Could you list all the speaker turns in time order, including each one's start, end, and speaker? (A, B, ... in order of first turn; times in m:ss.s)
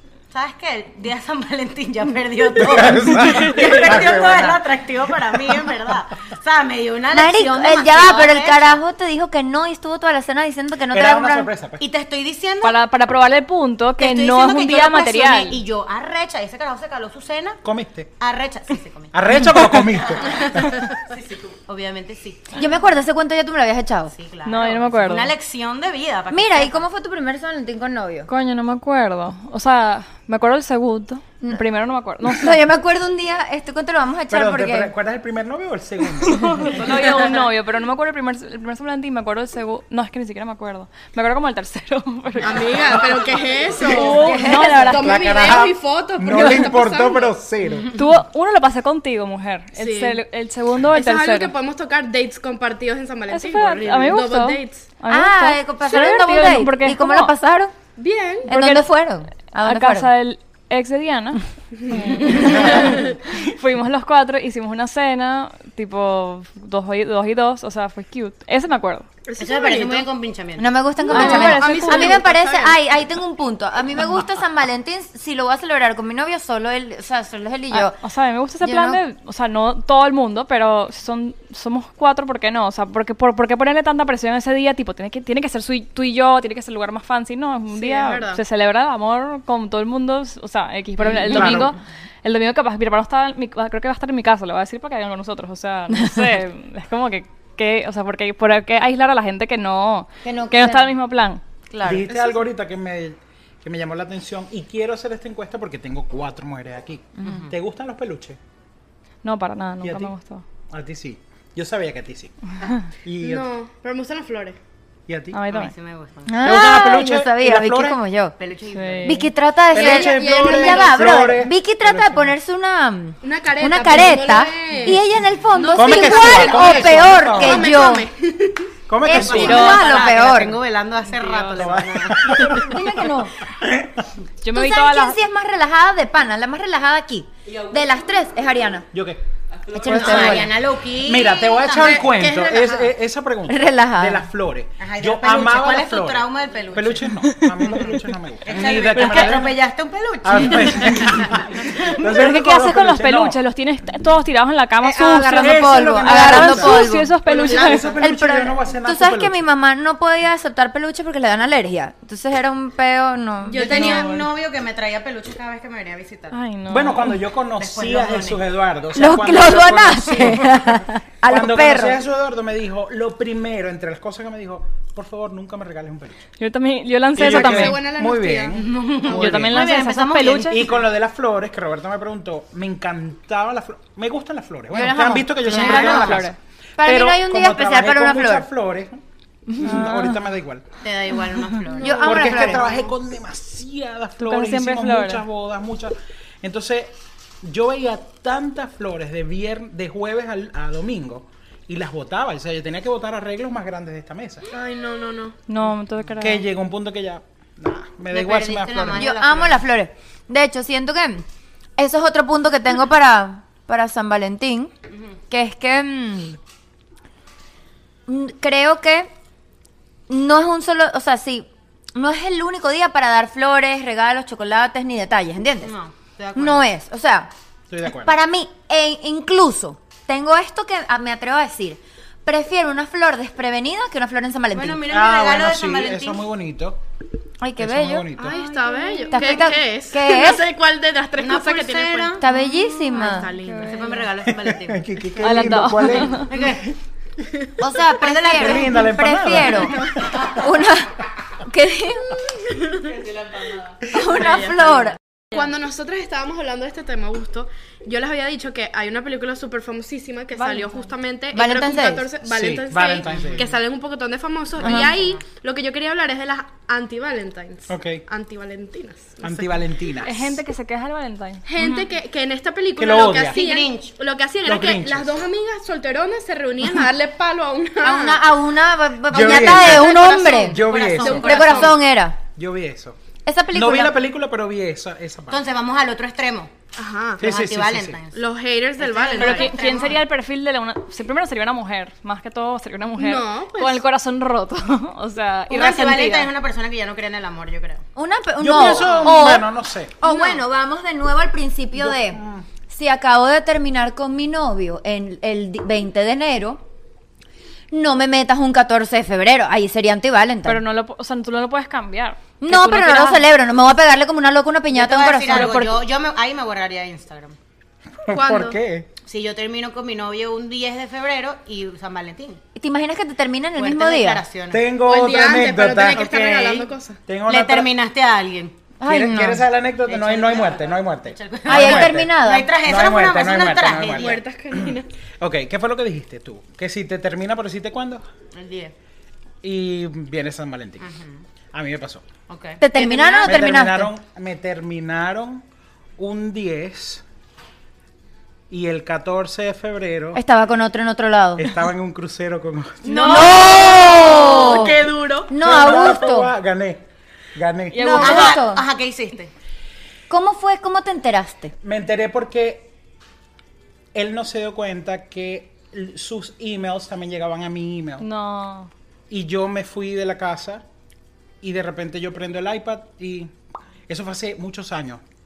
0:00.3-0:08.7 A
0:02.6-0:05.7 B
0:03.4-0:03.6 C
0:07.1-0:11.5 D
0:10.9-0:11.8 B
0:11.8-0:12.8 A
0:12.6-0:15.6 C
0:14.0-0:17.6 A
0:17.6-0:18.1 B
0:18.2-0:19.1 A
0:19.1-0:20.9 B
0:20.2-0:22.6 A
0:22.5-0:24.1 D
0:24.1-0:26.8 A
0:24.4-0:25.3 C
0:26.3-0:28.3 D
0:28.3-0:32.6 C
0:32.2-0:34.9 D
0:34.3-0:36.8 B
0:36.4-0:43.1 C
0:42.4-0:47.3 E
0:43.8-0:45.2 C
0:44.1-0:44.8 D
0:44.2-0:44.6 A
0:45.0-0:47.9 B
0:47.9-0:51.5 C
0:49.7-0:50.2 E
0:50.9-0:54.9 E
0:53.3-0:57.3 C
0:55.1-0:57.7 D
0:58.0-0:58.5 E
0:58.4-1:00.1 D
0:58.5-0:58.9 C
0:59.5-1:09.1 C
1:01.8-1:03.2 E
1:09.2-1:10.1 E
1:09.4-1:10.7 A
1:10.6-1:18.0 D
1:11.0-1:12.8 E
1:11.1-1:12.2 C
1:17.7-1:41.4 C
1:18.6-1:19.0 D
1:27.7-1:28.4 E
1:31.3-1:31.7 B
1:40.2-1:40.9 D
1:41.7-1:42.1 D
1:41.8-1:48.4 B
1:47.2-1:47.5 A
1:49.2-1:50.4 C
1:49.8-1:50.1 B
1:50.7-1:52.3 B
1:53.0-1:53.5 B
1:53.2-1:54.6 E
1:55.1-1:55.4 B
1:55.3-1:55.7 C
1:55.5-1:56.4 A
1:56.2-1:58.3 D
1:56.4-1:58.0 B
1:58.4-1:59.2 A
1:58.7-1:59.3 C
1:59.0-2:08.1 D
1:59.7-2:02.3 B
1:59.7-2:01.2 E
2:03.2-2:05.0 E
2:05.5-2:08.7 E
2:05.7-2:07.8 B
2:08.9-2:09.8 B
2:09.0-2:10.6 D
2:09.1-2:12.7 A
2:09.1-2:10.1 C
2:11.1-2:11.8 C
2:11.5-2:12.8 B
2:12.4-2:13.4 D
2:13.4-2:14.1 B
2:14.4-2:15.2 C
2:14.5-2:18.8 D
2:18.9-2:19.2 B
2:19.7-2:20.5 D
2:19.8-2:29.6 B
2:19.8-2:22.8 A
2:21.8-2:22.5 E
2:23.5-2:24.3 D
2:24.8-2:27.2 A
2:27.2-2:28.0 C
2:28.4-2:31.8 A
2:28.9-2:29.4 C
2:30.2-2:33.4 B
2:32.0-2:38.0 C
2:34.8-2:37.2 D
2:35.4-2:39.4 B
2:37.3-2:37.9 E
2:38.0-2:44.1 D
2:43.4-2:46.4 A
2:43.5-2:44.3 B
2:46.3-2:47.2 C
2:46.7-2:56.2 B
2:47.6-2:48.4 A
2:48.9-2:52.0 D
2:56.4-2:57.8 C
2:57.2-2:58.7 E
2:57.2-2:59.7 B
2:58.5-3:00.7 A
2:59.1-3:00.6 C
3:00.4-3:09.0 B
3:04.7-3:06.2 D
3:05.4-3:06.4 C
3:05.4-3:06.2 A
3:06.8-3:08.4 D
3:09.5-3:10.1 C
3:09.6-3:10.7 B
3:10.8-3:12.6 A
3:11.8-3:12.7 D
3:11.8-3:12.7 E
3:12.0-3:24.4 B
3:14.2-3:15.2 C
3:24.5-3:25.4 E
3:25.5-3:26.4 C
3:26.2-3:29.1 B
3:28.1-3:29.6 A
3:28.9-3:31.2 D
3:31.8-3:34.7 D
3:35.3-3:36.4 D
3:38.1-3:39.1 D
3:40.1-3:45.7 D
3:45.6-3:46.6 A
3:46.4-3:47.3 D
3:47.7-3:48.2 B
3:47.9-3:54.8 D
3:54.5-3:56.2 A
3:54.9-3:56.8 B
3:57.4-3:58.1 D
3:57.6-3:58.4 B
3:58.2-4:02.2 E
3:58.2-3:59.5 C
3:59.1-4:00.5 D
4:01.2-4:02.2 A
4:02.2-4:03.3 D
4:02.2-4:04.1 C
4:02.9-4:05.4 A
4:03.0-4:03.3 E
4:04.2-4:06.6 B
4:05.2-4:06.3 C
4:06.0-4:06.7 A
4:07.6-4:12.8 D
4:08.0-4:08.9 A
4:08.3-4:10.3 B
4:13.9-4:15.0 D
4:15.3-4:29.5 E
4:20.4-4:20.9 C
4:21.3-4:22.1 D
4:22.2-4:23.5 B
4:23.0-4:23.5 A
4:24.6-4:25.2 A
4:24.6-4:24.9 D
4:27.7-4:28.0 B
4:29.2-4:30.4 B
4:30.0-4:31.4 C
4:31.4-4:38.3 E
4:32.8-4:33.4 B
4:33.3-4:33.9 A
4:34.4-4:35.1 B
4:37.8-4:42.2 D
4:39.1-4:41.6 B
4:39.5-4:41.8 A
4:39.6-4:40.4 E
4:41.0-4:41.8 E
4:42.4-4:43.0 B
4:43.2-4:43.9 D
4:43.5-4:45.4 B
4:45.3-4:46.5 A
4:46.8-4:47.3 E
4:47.2-4:48.0 B
4:47.2-4:48.2 A
4:48.1-4:49.6 E
4:48.8-4:50.0 A
4:49.2-4:56.3 C
4:52.9-4:53.8 E
4:55.5-4:57.8 A
4:58.0-4:59.5 D
4:58.4-4:59.9 B
4:58.5-4:59.3 A
5:00.0-5:06.6 D
5:00.0-5:00.4 A
5:01.7-5:02.4 B
5:07.7-5:10.6 D
5:10.4-5:13.2 C
5:12.4-5:15.8 D
5:14.7-5:17.4 A
5:18.0-5:18.9 B
5:18.1-5:18.6 E
5:19.0-5:22.4 A
5:22.6-5:24.2 D
5:23.6-5:24.6 A
5:24.5-5:27.7 B
5:24.8-5:27.0 E
5:27.3-5:28.5 A
5:28.8-5:29.4 D
5:28.8-5:38.0 B
5:29.8-5:34.2 A
5:31.4-5:32.5 D
5:34.0-5:34.9 E
5:38.3-5:38.7 A
5:39.4-5:40.9 B
5:40.8-5:41.2 A
5:41.5-5:42.0 B
5:42.3-5:43.5 A
5:42.6-5:43.9 D
5:43.2-5:45.4 B
5:46.0-5:47.0 B
5:48.5-5:50.2 B
5:50.1-5:51.5 D
5:51.4-5:53.8 B
5:52.8-5:55.3 A
5:53.0-5:56.3 D
5:55.3-5:56.8 B
5:57.3-5:58.0 B
5:57.7-5:58.4 C
5:57.8-5:58.6 D
5:58.0-5:59.3 A
6:00.1-6:01.5 D
6:01.6-6:02.7 B
6:03.9-6:08.0 B
6:08.0-6:08.7 C
6:09.1-6:10.6 B
6:11.4-6:13.3 B
6:13.9-6:15.0 B